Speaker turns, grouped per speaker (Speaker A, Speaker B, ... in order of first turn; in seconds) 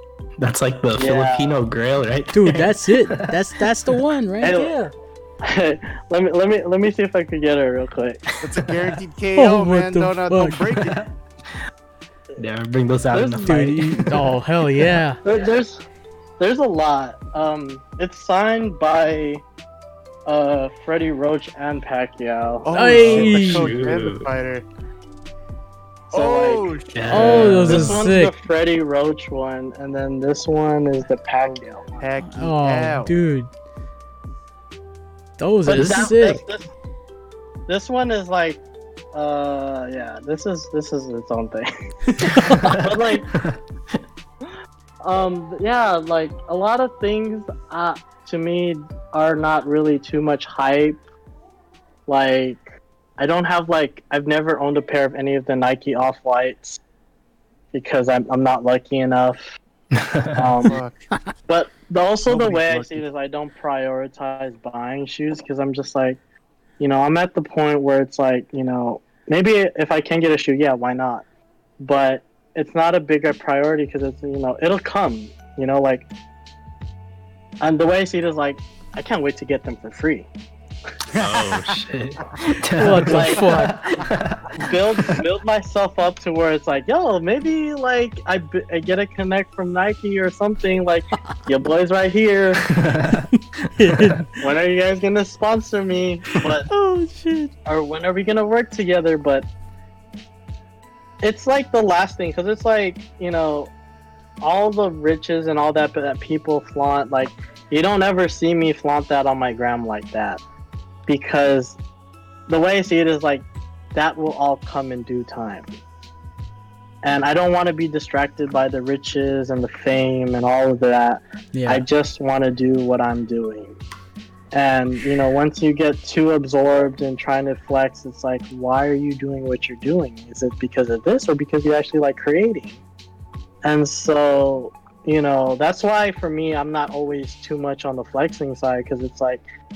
Speaker A: 0.4-3.3, 12.4-15.0, 23.2-24.3, 26.9-28.1, 35.7-36.2, 42.5-43.6, 60.0-60.3, 81.2-84.7, 92.7-94.1
Speaker B: 1.0-1.6, 4.4-4.8, 5.4-8.3, 13.1-13.6, 15.2-15.8, 16.4-19.4, 20.2-23.3, 26.1-26.7, 27.7-32.0, 35.6-36.7, 37.7-38.6, 39.1-41.7, 42.6-43.3, 45.0-51.0, 52.1-56.8, 57.7-59.6, 60.3-60.8, 61.5-66.2, 66.8-71.2, 71.8-76.1, 77.6-80.3, 83.0-83.5, 84.5-92.6, 94.4-96.7, 97.7-99.5, 101.2-103.7, 104.4-110.4, 111.1-111.8, 112.5-115.7, 117.0-123.8, 124.5-132.8, 133.6-139.4
Speaker C: 2.3-4.9, 9.3-10.7, 13.4-15.2, 22.7-23.9, 27.1-28.3, 32.2-33.5, 35.4-36.4, 42.0-42.8, 82.8-83.8, 93.1-94.4, 96.7-97.5, 121.5-121.8
Speaker D: 8.4-11.1, 22.6-24.6, 26.1-27.8, 32.0-33.1, 60.6-60.9, 62.2-63.0, 81.1-81.6